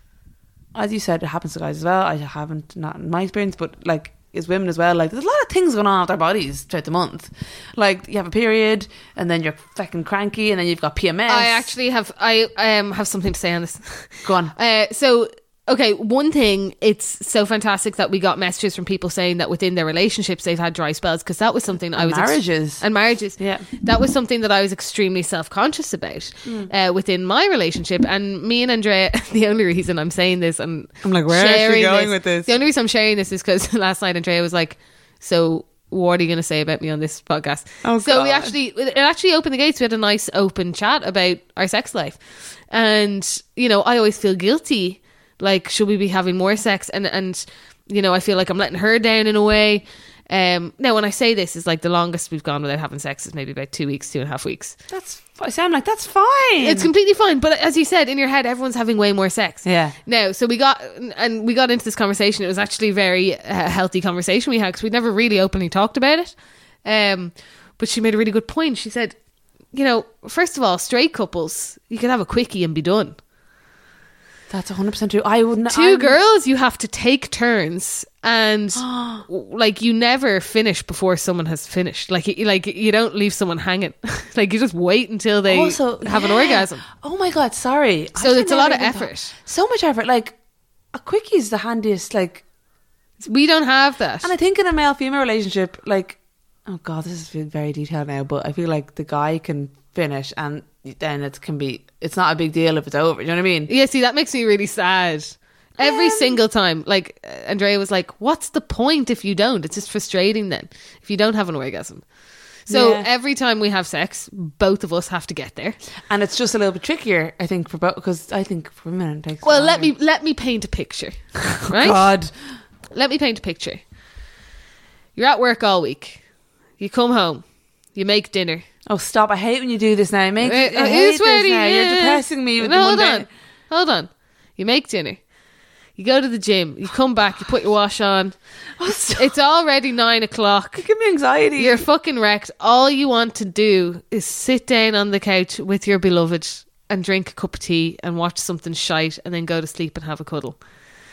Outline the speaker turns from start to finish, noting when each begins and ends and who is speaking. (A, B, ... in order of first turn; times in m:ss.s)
0:00.8-0:11.7 A
0:11.3-0:54.8 B
0:14.2-0:14.5 A
0:22.0-0:22.8 A
0:23.4-0:23.7 A
0:26.4-0:26.7 A
0:31.0-0:32.5 A
0:37.8-0:38.5 A
0:54.9-0:56.9 A
0:56.6-1:09.2 B
0:59.6-1:00.0 A
1:09.7-1:13.2 B
1:14.5-1:16.2 A
1:15.7-1:26.8 B
1:18.8-1:19.2 A
1:25.5-1:30.4 A
1:28.2-1:29.3 B
1:30.9-1:32.4 A
1:33.2-1:34.3 B
1:34.2-1:43.7 A
1:43.7-1:52.1 B
1:45.8-1:46.4 A
1:52.6-1:55.8 B
1:52.7-1:53.1 A
1:56.1-1:59.9 A
1:59.4-2:02.1 B
2:01.7-2:02.3 A
2:02.9-2:03.8 B
2:05.2-2:06.2 B
2:06.8-2:08.7 B
2:08.9-2:13.3 A
2:10.4-2:15.2 B
2:16.0-2:18.4 B
2:18.8-2:19.3 A
2:19.2-2:20.9 B
2:20.8-2:21.8 A
2:21.6-2:30.6 B